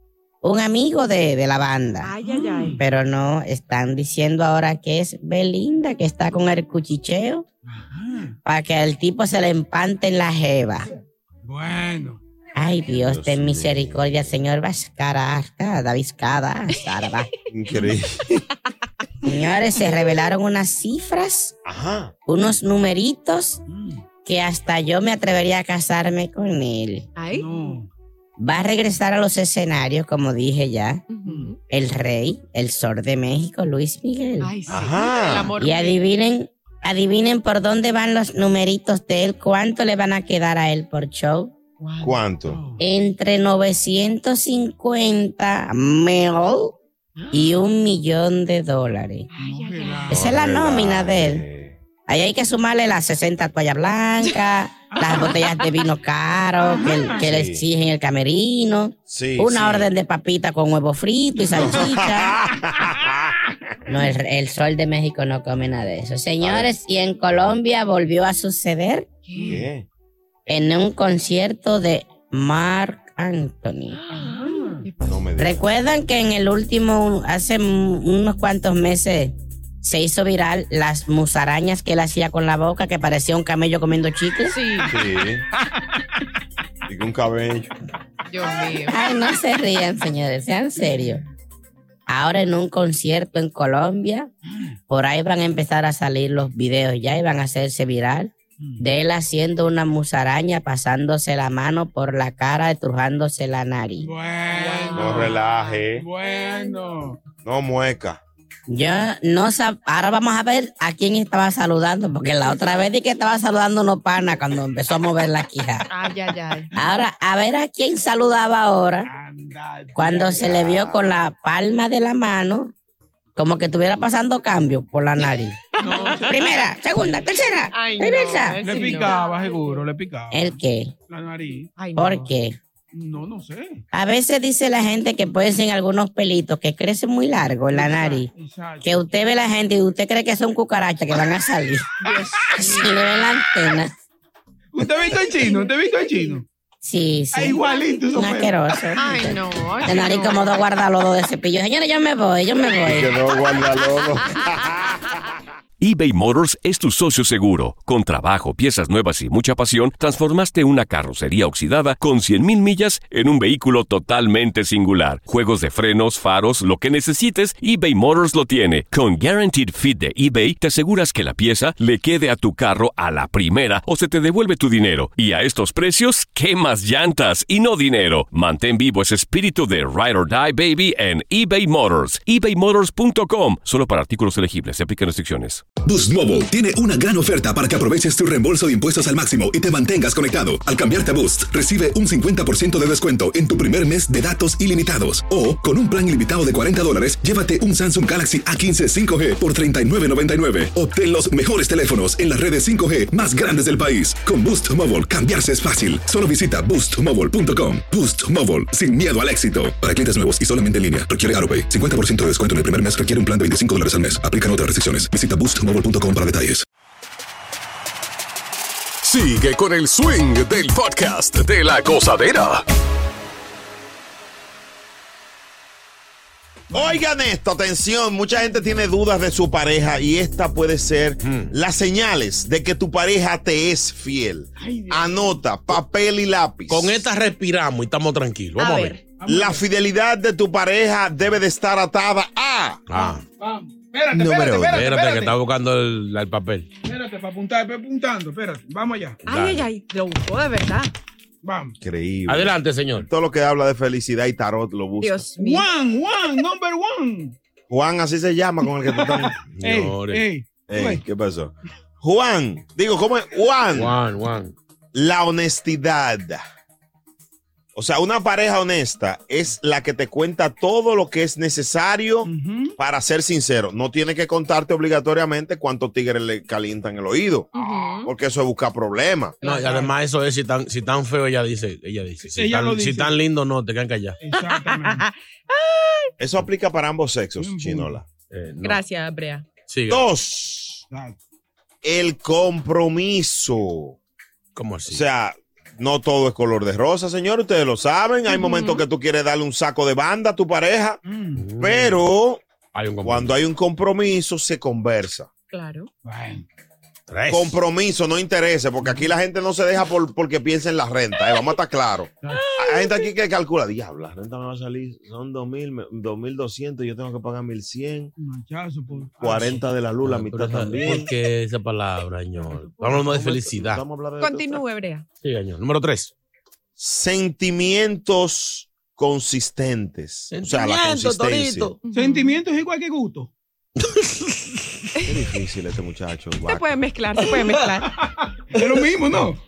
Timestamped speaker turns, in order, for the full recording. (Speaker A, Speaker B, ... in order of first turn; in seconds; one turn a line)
Speaker A: 0.4-2.1
Speaker B: 2.0-2.8
Speaker C: 2.2-2.8
Speaker A: 2.8-7.5
Speaker C: 7.7-8.3
Speaker A: 8.4-10.9
Speaker C: 11.4-12.2
Speaker A: 12.5-17.3
Speaker D: 13.0-14.3
Speaker D: 17.5-18.4
Speaker A: 19.2-21.5
Speaker D: 21.6-22.1
Speaker A: 22.3-23.6
Speaker C: 23.7-24.0
Speaker A: 24.2-27.1
Speaker B: 27.1-27.8
Speaker C: 27.3-27.9
Speaker A: 28.4-31.0
Speaker B: 31.1-31.6
Speaker C: 31.2-31.5
Speaker A: 31.7-34.6
Speaker B: 34.4-36.0
Speaker D: 34.7-35.5
Speaker A: 35.5-41.5
Speaker B: 41.8-42.2
Speaker D: 42.0-42.6
Speaker C: 42.5-42.8
Speaker A: 42.8-46.8
Speaker B: 47.2-47.5
Speaker A: 47.3-49.3
Speaker B: 49.3-50.3
Speaker C: 49.4-50.2
Speaker A: 50.1-51.5
Speaker D: 50.1-51.8
Speaker A: 52.1-62.4
Speaker C: 55.0-55.2
Speaker D: 57.2-57.6
Speaker D: 59.1-59.9
Speaker D: 61.5-63.4
Speaker A: 63.9-69.1
Speaker D: 66.4-66.7
Speaker B: 69.3-69.7
Speaker D: 69.4-69.8
Speaker A: 70.5-74.0
Speaker B: 74.0-75.1
Speaker D: 75.0-75.6
Speaker A: 75.4-84.8
Speaker B: 84.5-85.0
Speaker D: 84.8-85.4
Speaker D: 86.8-87.7
Speaker B: 88.3-89.0
Speaker A: 88.8-91.2
Speaker A: 92.1-94.3
Speaker C: 94.5-94.8
Speaker A: 94.9-104.1
Speaker C: 104.0-105.4
Speaker B: 104.5-106.7
Speaker D: 104.9-106.0
Speaker C: 106.0-107.2
Speaker D: 107.4-108.2
Speaker A: 108.7-115.9
Speaker B: 115.9-116.7
Speaker A: 116.7-119.1
Speaker C: 119.0-120.5
Speaker A: 119.9-122.7
Speaker D: 120.3-121.0
Speaker A: 123.3-125.6
Speaker B: 125.8-126.5
Speaker C: 125.8-126.5
Speaker A: 126.2-128.6
Speaker B: 127.7-129.8
Speaker C: 128.6-130.6
Speaker A: 130.3-130.9
Speaker C: 131.1-131.7
Speaker B: 131.8-132.3
Speaker A: 131.9-132.6
Speaker C: 132.9-133.8
Speaker A: 133.9-138.3
Speaker C: 137.7-139.0
Speaker A: 138.8-141.9
Speaker B: 142.0-143.1
Speaker A: 142.5-143.9
Speaker C: 144.7-146.4
Speaker B: 145.4-146.4
Speaker A: 146.8-153.2
Speaker C: 147.3-148.8
Speaker B: 149.0-150.5
Speaker D: 152.8-155.2
Speaker E: 155.8-185.6
Speaker F: 185.8-216.7
Speaker G: 219.0-222.6
Speaker C: 226.7-227.0
Speaker D: 226.7-237.1
Speaker H: 231.2-231.5
Speaker C: 234.6-235.4
Speaker H: 236.7-239.0
Speaker B: 238.6-239.0
Speaker C: 239.2-239.6
Speaker D: 239.2-242.8
Speaker H: 242.9-243.2
Speaker C: 243.4-245.3
Speaker D: 244.1-244.8
Speaker H: 244.7-246.7
Speaker C: 246.8-249.2
Speaker H: 249.2-249.7
Speaker B: 249.2-250.9
Speaker C: 251.4-251.8
Speaker D: 251.8-255.3
Speaker H: 252.3-253.1
Speaker B: 255.0-255.7
Speaker C: 255.3-257.4
Speaker D: 257.7-259.5
Speaker C: 258.9-261.0
Speaker H: 259.5-260.3
Speaker D: 260.7-264.0
Speaker H: 263.7-264.5
Speaker D: 264.9-266.4
Speaker D: 267.7-279.4
Speaker C: 272.2-272.8
Speaker B: 277.5-278.1
Speaker B: 279.4-279.9
Speaker H: 279.4-284.2
Speaker C: 279.6-279.9
Speaker C: 282.2-283.2
Speaker C: 284.2-285.0
Speaker B: 284.4-286.1
Speaker D: 286.2-288.0
Speaker C: 287.4-288.0
Speaker H: 288.3-288.8
Speaker B: 288.6-289.4
Speaker H: 289.7-290.1
Speaker D: 289.9-290.8
Speaker C: 290.9-291.2
Speaker D: 291.8-294.0
Speaker H: 294.5-295.0
Speaker D: 294.9-301.0
Speaker B: 298.3-298.8
Speaker C: 301.0-301.5
Speaker H: 301.4-302.0
Speaker D: 301.6-302.4
Speaker H: 302.7-303.4
Speaker D: 303.0-305.3
Speaker B: 305.5-305.9
Speaker C: 306.0-306.4
Speaker H: 307.1-307.6
Speaker D: 307.3-318.1
Speaker C: 308.8-309.1
Speaker C: 312.2-312.5
Speaker B: 312.3-313.1
Speaker C: 318.2-319.6
Speaker D: 319.2-321.1
Speaker H: 320.0-323.8
Speaker C: 322.4-322.8
Speaker D: 322.8-324.6
Speaker B: 324.2-325.0
Speaker H: 325.2-326.1
Speaker D: 326.8-331.7
Speaker H: 330.3-331.8
Speaker B: 331.8-332.4
Speaker C: 331.9-333.3
Speaker H: 333.8-334.5
Speaker D: 335.0-336.6
Speaker B: 336.5-337.9
Speaker C: 337.3-339.4